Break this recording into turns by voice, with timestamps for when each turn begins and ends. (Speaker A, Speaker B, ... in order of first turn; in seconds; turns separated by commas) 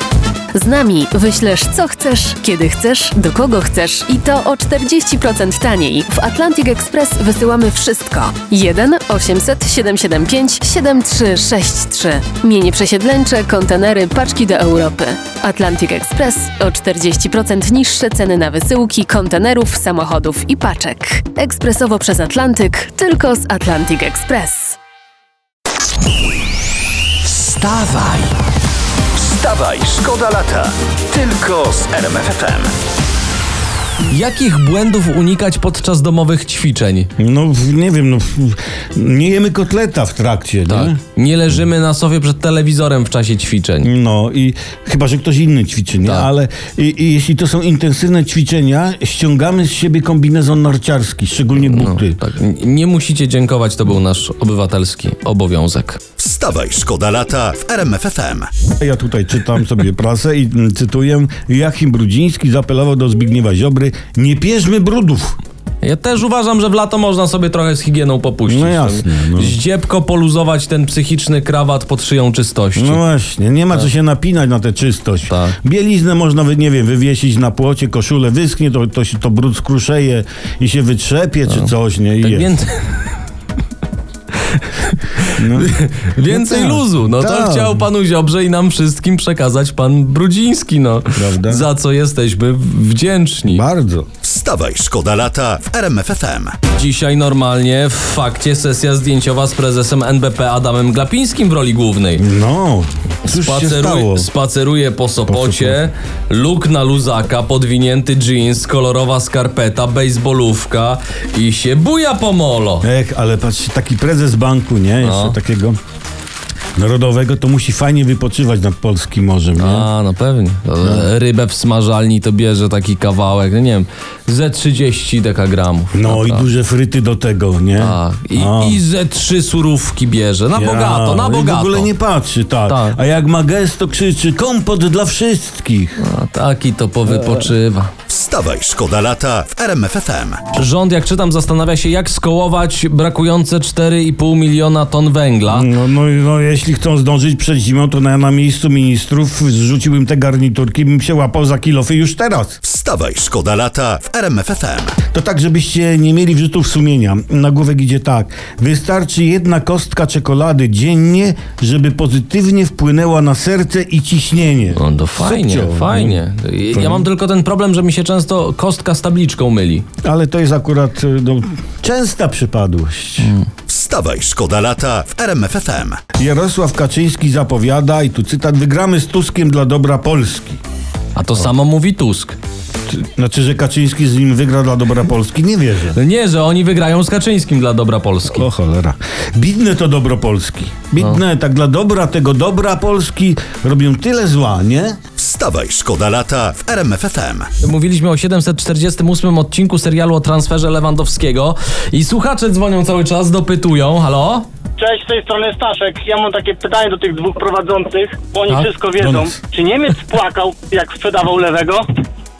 Speaker A: 0.5-24.8, Speaker B: 27.3-28.3, Speaker C: 27.6-28.1, Speaker B: 29.1-32.7, Speaker C: 34.1-37.1, Speaker D: 37.2-41.0, Speaker C: 40.7-43.9, Speaker D: 43.8-52.2, Speaker C: 51.6-56.0, Speaker B: 56.2-58.5, Speaker D: 58.8-65.4, Speaker C: 65.8-73.0, Speaker D: 68.5-69.6, Speaker D: 72.8-82.5, Speaker C: 75.3-75.6, Speaker C: 81.5-82.9, Speaker C: 84.6-93.6, Speaker D: 85.3-85.7, Speaker D: 86.3-87.8, Speaker D: 91.1-91.7, Speaker D: 93.5-94.1, Speaker B: 94.2-96.6, Speaker C: 96.7-102.2, Speaker D: 102.2-104.3, Speaker C: 103.3-112.8, Speaker D: 105.3-105.8, Speaker D: 112.8-115.8, Speaker C: 115.0-115.3, Speaker D: 116.8-119.9, Speaker C: 119.6-126.5, Speaker D: 120.8-121.1, Speaker D: 125.9-128.8, Speaker C: 127.8-131.9, Speaker D: 130.5-136.0, Speaker C: 132.7-133.0, Speaker C: 136.0-137.9, Speaker B: 138.1-140.4, Speaker C: 140.5-145.7, Speaker D: 145.5-152.6, Speaker B: 152.6-155.0, Speaker D: 155.1-166.2, Speaker C: 164.8-169.8, Speaker D: 166.7-167.1, Speaker D: 170.0-173.3, Speaker B: 173.7-176.0, Speaker D: 176.2-180.6, Speaker C: 181.2-182.4, Speaker D: 182.9-186.0, Speaker C: 185.9-188.5, Speaker D: 188.3-195.0, Speaker B: 195.2-197.5, Speaker C: 197.6-204.5, Speaker E: 204.8-211.9, Speaker C: 208.5-208.8, Speaker D: 209.0-209.3